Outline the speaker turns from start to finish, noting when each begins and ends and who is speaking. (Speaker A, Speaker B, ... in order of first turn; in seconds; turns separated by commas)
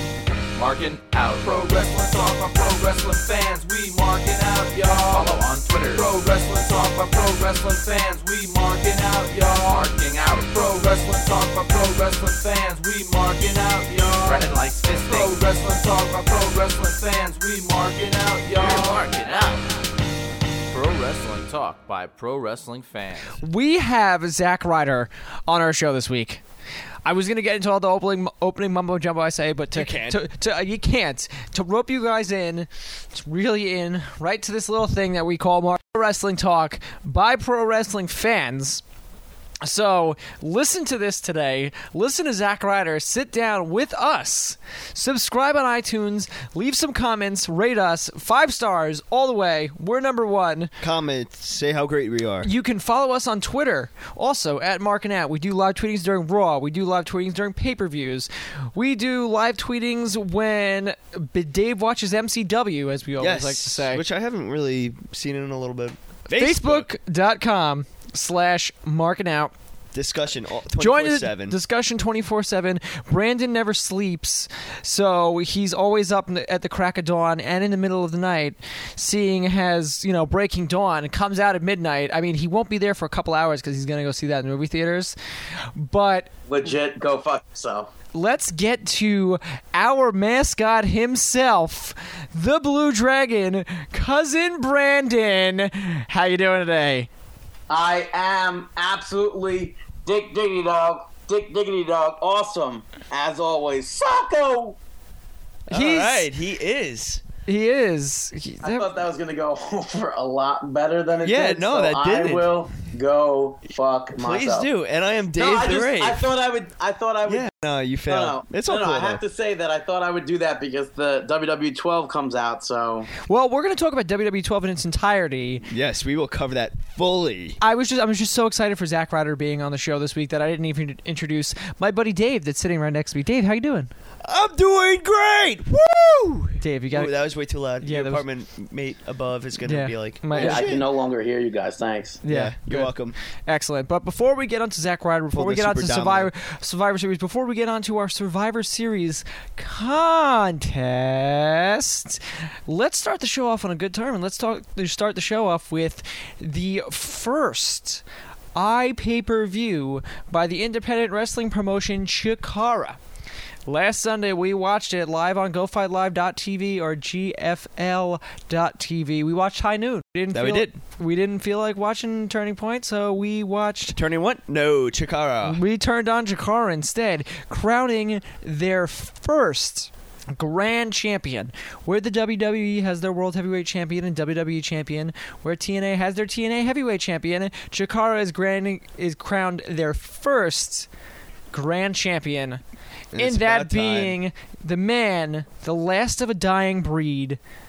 Speaker A: 0.5-19.6, Speaker A: 20.7-23.4, Speaker B: 23.4-26.4, Speaker B: 27.1-38.8, Speaker C: 29.7-30.2, Speaker B: 39.6-50.7, Speaker C: 50.8-52.5, Speaker B: 52.4-64.0, Speaker C: 63.2-66.9, Speaker B: 66.3-69.5, Speaker C: 69.9-71.6, Speaker B: 70.8-85.1, Speaker B: 85.7-86.3, Speaker D: 86.5-87.9, Speaker B: 88.1-97.1, Speaker D: 97.7-104.8, Speaker B: 105.7-106.3, Speaker C: 105.7-107.2, Speaker B: 107.5-108.9, Speaker D: 108.6-114.7, Speaker C: 111.2-112.5, Speaker C: 114.2-116.3, Speaker D: 115.3-117.5, Speaker C: 117.2-119.2, Speaker D: 118.1-123.1, Speaker B: 123.2-125.7, Speaker C: 125.7-127.6, Speaker B: 127.6-133.9, Speaker C: 134.2-140.8, Speaker B: 136.6-137.2, Speaker B: 137.8-138.2, Speaker B: 139.6-140.7, Speaker D: 140.3-142.2, Speaker B: 142.2-158.0, Speaker C: 142.3-143.1, Speaker C: 145.3-146.3, Speaker B: 158.5-163.0, Speaker B: 163.7-174.0, Speaker C: 170.3-170.7, Speaker C: 173.9-175.6, Speaker B: 175.4-190.9, Speaker B: 191.5-192.6, Speaker C: 193.1-194.2, Speaker B: 193.1-197.4